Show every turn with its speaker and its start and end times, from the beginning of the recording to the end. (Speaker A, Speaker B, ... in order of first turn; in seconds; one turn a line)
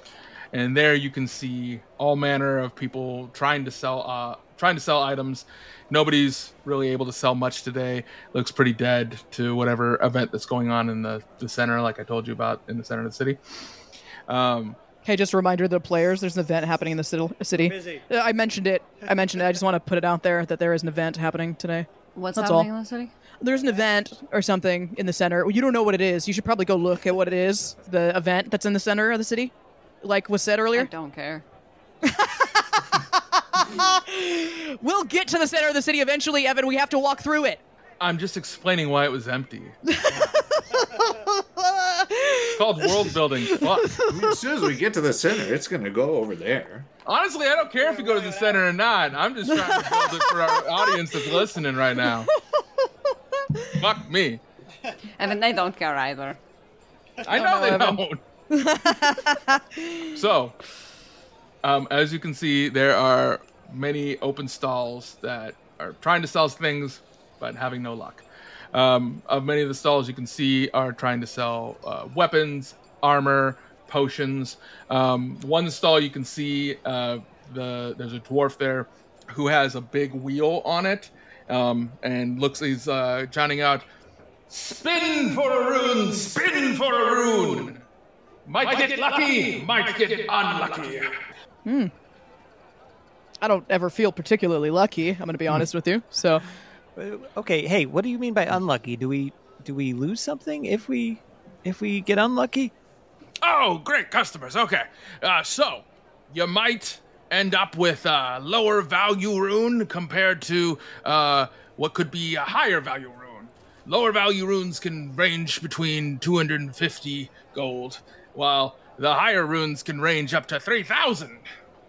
Speaker A: 0.5-13.4
Speaker A: 14.3-14.8
Speaker B: 15.0-22.7
Speaker C: 17.6-18.0
Speaker D: 22.1-23.1
Speaker B: 23.4-30.9
Speaker D: 30.7-31.4
Speaker B: 32.0-37.6
Speaker A: 38.0-39.7
Speaker B: 39.9-44.4
Speaker C: 40.1-41.0
Speaker A: 42.5-44.0
Speaker E: 44.0-46.9
Speaker A: 47.0-52.3
Speaker C: 47.8-48.6
Speaker B: 49.5-51.3
Speaker B: 52.3-52.6
Speaker B: 53.5-53.8
Speaker A: 53.8-54.4
Speaker D: 55.1-56.4
Speaker A: 57.2-58.2
Speaker B: 57.2-60.1
Speaker A: 60.1-60.6
Speaker A: 61.6-83.8
Speaker A: 84.5-87.8
Speaker A: 88.5-91.1
Speaker B: 91.7-91.9
Speaker B: 93.4-96.4
Speaker C: 97.0-102.7
Speaker A: 103.4-121.4